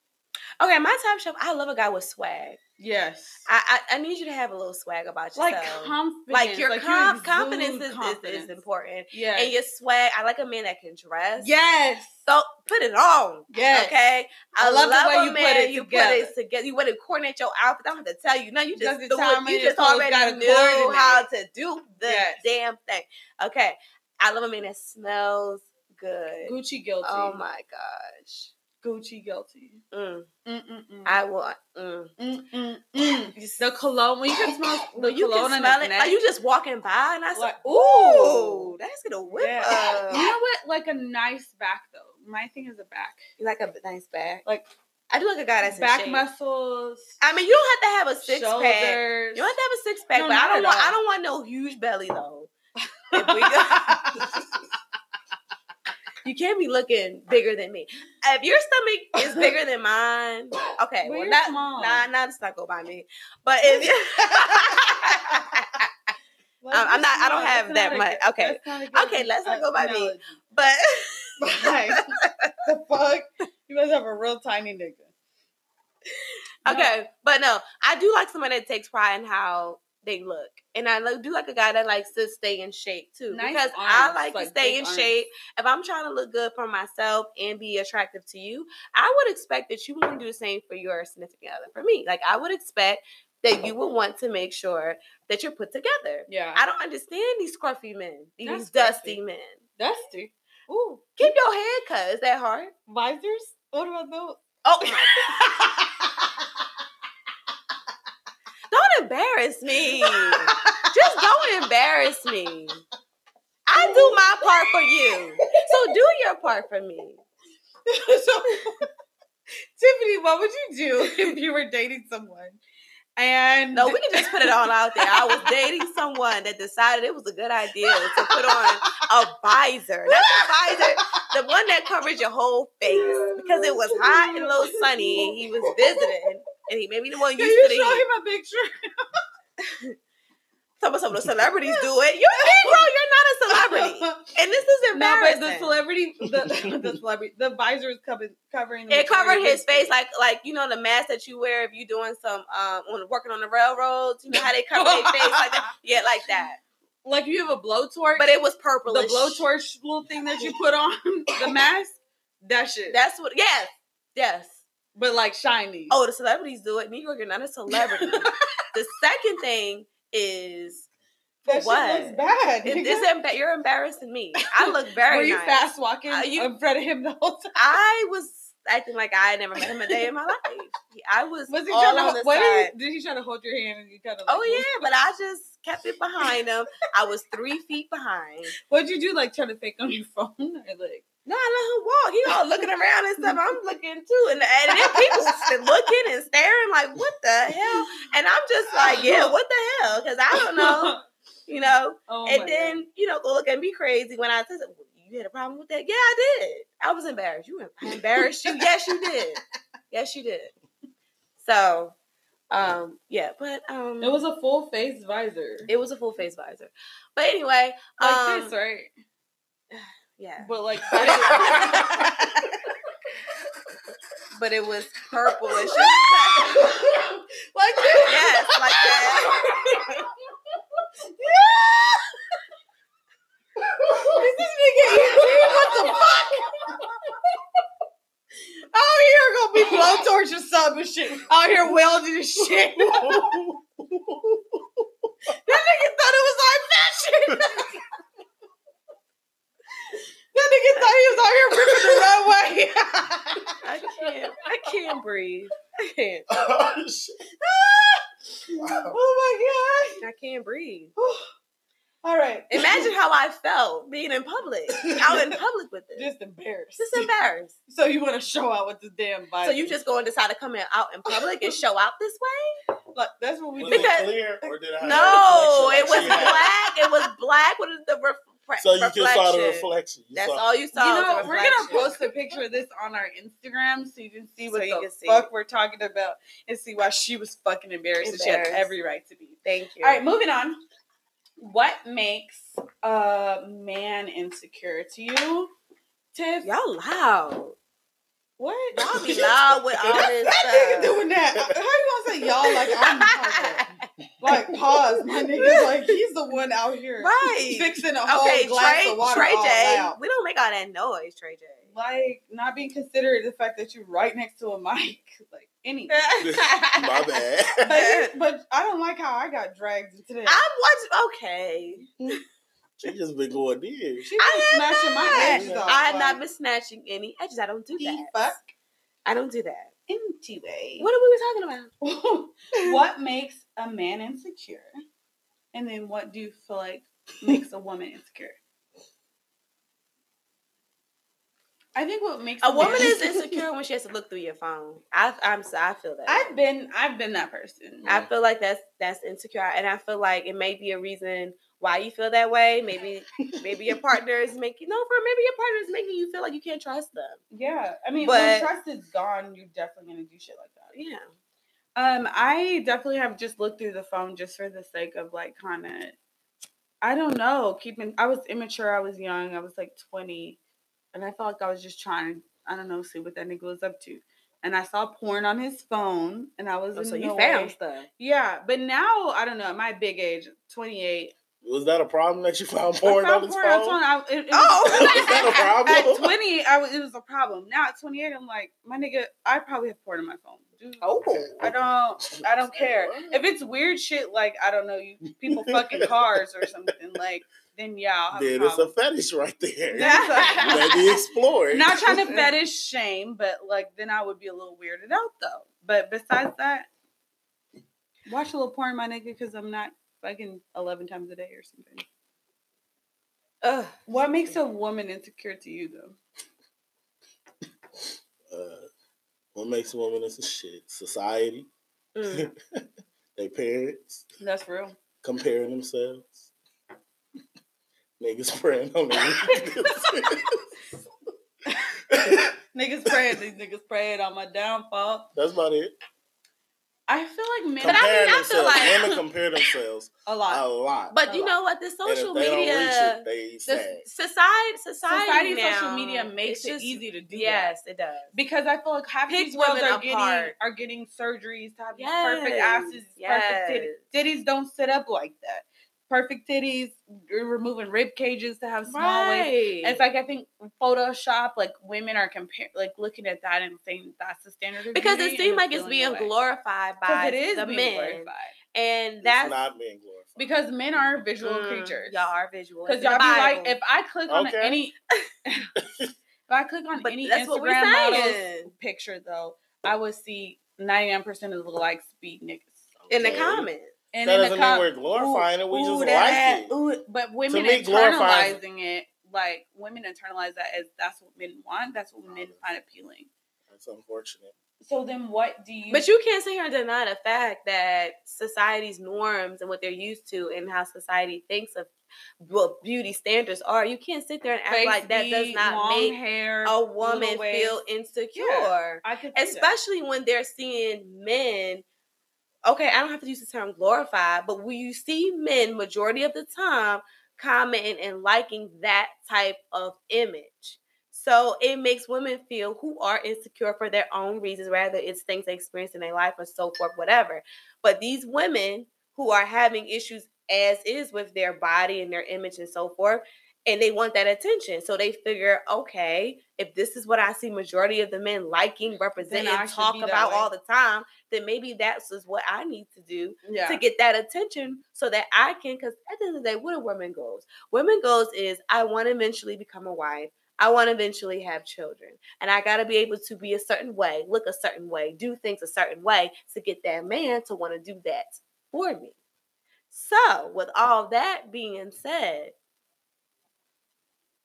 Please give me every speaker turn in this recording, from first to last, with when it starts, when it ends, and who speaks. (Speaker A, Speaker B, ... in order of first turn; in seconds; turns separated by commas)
Speaker A: 0.6-2.6, Speaker B: 2.8-3.5, Speaker A: 3.5-11.5, Speaker B: 5.3-8.6, Speaker B: 9.1-9.5, Speaker B: 11.4-12.2, Speaker A: 12.2-28.5, Speaker B: 13.5-13.9, Speaker B: 14.6-16.3, Speaker B: 18.7-21.2, Speaker B: 22.0-22.4, Speaker B: 26.5-27.4, Speaker B: 28.8-29.8, Speaker A: 29.9-30.3, Speaker B: 30.4-31.2, Speaker A: 31.0-32.1, Speaker B: 32.2-36.2, Speaker A: 33.3-33.6, Speaker A: 34.4-40.3, Speaker B: 37.3-38.7, Speaker B: 39.3-43.2, Speaker A: 43.4-44.4, Speaker A: 45.1-46.2, Speaker B: 45.6-47.2, Speaker A: 47.2-52.5, Speaker B: 48.2-49.5, Speaker B: 50.1-51.0, Speaker A: 53.1-54.4, Speaker B: 53.1-54.5, Speaker A: 56.2-66.1, Speaker B: 59.1-59.5, Speaker B: 61.0-62.0, Speaker B: 63.6-65.5, Speaker B: 66.6-70.4, Speaker A: 66.7-72.5, Speaker B: 71.4-75.1, Speaker A: 76.6-99.6, Speaker B: 76.7-76.9, Speaker B: 83.3-85.1, Speaker B: 96.3-96.7, Speaker B: 98.4-99.2, Speaker B: 99.8-101.3, Speaker A: 101.2-102.7, Speaker B: 102.9-106.5, Speaker A: 104.6-105.6, Speaker A: 108.7-112.8, Speaker B: 110.0-111.2, Speaker A: 113.7-117.2, Speaker B: 113.7-115.8, Speaker B: 117.9-118.9, Speaker B: 119.8-122.6, Speaker A: 121.0-121.3, Speaker B: 123.2-125.9, Speaker A: 123.7-138.0, Speaker B: 127.8-129.0, Speaker B: 130.1-131.1, Speaker B: 132.8-136.1, Speaker B: 137.3-139.2, Speaker A: 139.6-139.9, Speaker A: 140.8-145.8, Speaker B: 142.3-142.9, Speaker B: 143.5-144.3, Speaker B: 144.9-149.9, Speaker C: 146.2-147.0, Speaker A: 148.9-156.6, Speaker B: 154.3-155.7, Speaker B: 157.0-158.3, Speaker A: 158.2-159.4, Speaker B: 158.8-163.0, Speaker A: 162.9-164.6, Speaker B: 164.9-165.9, Speaker A: 165.9-170.9, Speaker B: 167.7-168.4, Speaker B: 171.4-173.1, Speaker A: 171.4-176.5, Speaker B: 174.4-177.6, Speaker A: 177.6-182.7, Speaker B: 181.5-184.9, Speaker A: 184.3-188.5, Speaker B: 188.6-191.1, Speaker A: 191.2-210.5, Speaker B: 192.3-192.7, Speaker B: 194.7-195.7, Speaker B: 197.6-198.1, Speaker B: 198.7-199.3, Speaker B: 200.3-201.0, Speaker B: 202.1-202.8, Speaker B: 207.9-209.2, Speaker A: 211.4-211.9, Speaker A: 212.5-214.2, Speaker B: 214.0-215.7, Speaker A: 215.7-218.5, Speaker B: 218.0-218.9, Speaker A: 219.7-222.0, Speaker B: 220.4-222.7, Speaker C: 221.3-221.8, Speaker A: 224.3-226.7, Speaker B: 225.5-230.1, Speaker A: 228.0-229.9, Speaker B: 231.1-232.1, Speaker B: 233.8-237.1, Speaker C: 233.9-234.2, Speaker B: 238.7-243.4, Speaker C: 242.5-244.8, Speaker B: 245.4-247.8, Speaker C: 247.3-247.6, Speaker B: 250.3-254.1, Speaker A: 253.6-256.3, Speaker C: 256.3-257.3, Speaker B: 257.4-260.0, Speaker C: 258.6-259.0, Speaker A: 260.0-260.9, Speaker B: 261.0-261.3, Speaker B: 262.0-262.9, Speaker A: 262.5-266.1, Speaker B: 264.8-265.4, Speaker B: 265.9-267.1, Speaker A: 266.8-267.5, Speaker B: 267.7-269.7, Speaker A: 269.4-272.6, Speaker B: 271.1-271.6, Speaker B: 272.9-277.1, Speaker C: 273.6-276.4, Speaker A: 273.6-274.1, Speaker A: 274.8-282.0, Speaker C: 278.6-280.4, Speaker B: 280.7-290.6, Speaker A: 284.5-285.3, Speaker A: 288.0-288.7, Speaker A: 289.4-290.0, Speaker B: 291.4-295.5, Speaker B: 296.1-296.5, Speaker A: 296.4-297.6, Speaker B: 298.4-299.2, Speaker A: 298.7-301.0, Speaker C: 298.9-300.1, Speaker B: 299.9-303.6, Speaker A: 302.5-303.8, Speaker B: 304.2-310.0, Speaker C: 304.2-304.8, Speaker A: 305.4-305.9, Speaker A: 307.0-311.7, Speaker B: 311.7-316.4, Speaker A: 315.9-316.9, Speaker C: 316.2-317.7, Speaker B: 317.6-320.4, Speaker A: 317.6-318.1, Speaker A: 320.2-322.2, Speaker C: 322.8-324.1, Speaker B: 324.0-326.2, Speaker A: 324.2-328.3, Speaker C: 325.1-325.8, Speaker B: 327.8-328.5, Speaker A: 329.1-329.7, Speaker B: 329.9-330.9, Speaker A: 330.8-331.7, Speaker B: 331.8-334.7, Speaker B: 335.5-338.4, Speaker B: 341.7-343.4, Speaker A: 342.4-346.3, Speaker B: 346.1-347.9, Speaker A: 347.9-357.2, Speaker B: 357.3-360.7, Speaker A: 358.0-358.5, Speaker A: 360.7-361.1, Speaker B: 361.8-366.0, Speaker B: 366.8-370.4, Speaker B: 370.9-381.1, Speaker A: 376.7-377.9, Speaker C: 381.4-383.8, Speaker B: 382.8-398.7, Speaker A: 384.3-385.5, Speaker C: 384.7-386.1, Speaker A: 390.8-391.3, Speaker C: 391.1-391.6, Speaker C: 392.1-393.3, Speaker C: 395.2-396.2, Speaker C: 398.1-402.3, Speaker B: 399.7-400.9, Speaker A: 399.8-400.9, Speaker B: 401.5-406.7, Speaker B: 408.1-411.8, Speaker A: 413.4-413.8, Speaker B: 413.9-416.0, Speaker C: 418.3-418.7, Speaker C: 419.3-421.5, Speaker A: 421.9-422.3, Speaker C: 422.1-422.6, Speaker C: 423.1-424.0, Speaker B: 424.2-424.8, Speaker C: 425.0-426.3, Speaker C: 428.0-430.4, Speaker B: 429.3-430.2, Speaker B: 431.5-435.1, Speaker C: 431.9-432.3, Speaker C: 432.9-433.2, Speaker C: 435.1-435.7, Speaker B: 436.9-438.9, Speaker C: 437.6-440.9, Speaker A: 437.6-438.9, Speaker B: 440.1-440.4, Speaker A: 440.9-448.1, Speaker B: 441.1-441.3, Speaker C: 441.9-443.8, Speaker B: 444.9-447.5, Speaker B: 448.1-466.1, Speaker A: 449.1-450.3, Speaker A: 451.8-453.8, Speaker A: 458.7-459.8, Speaker A: 464.7-469.4, Speaker B: 466.9-468.3, Speaker C: 469.0-470.3, Speaker B: 470.2-472.1, Speaker A: 471.2-473.6, Speaker B: 472.7-474.7, Speaker C: 474.1-474.6, Speaker B: 475.2-475.5, Speaker C: 475.6-475.9, Speaker B: 476.3-482.7, Speaker A: 476.8-478.5, Speaker C: 482.8-483.5, Speaker A: 482.9-483.7, Speaker B: 483.9-493.1, Speaker C: 484.0-486.5, Speaker C: 487.3-488.4, Speaker C: 492.1-492.4, Speaker C: 493.5-494.3, Speaker B: 494.6-495.9, Speaker A: 495.7-511.6, Speaker B: 504.5-507.6, Speaker B: 508.1-509.5, Speaker A: 512.4-558.9, Speaker B: 539.0-540.3, Speaker B: 543.2-543.6, Speaker A: 559.7-562.3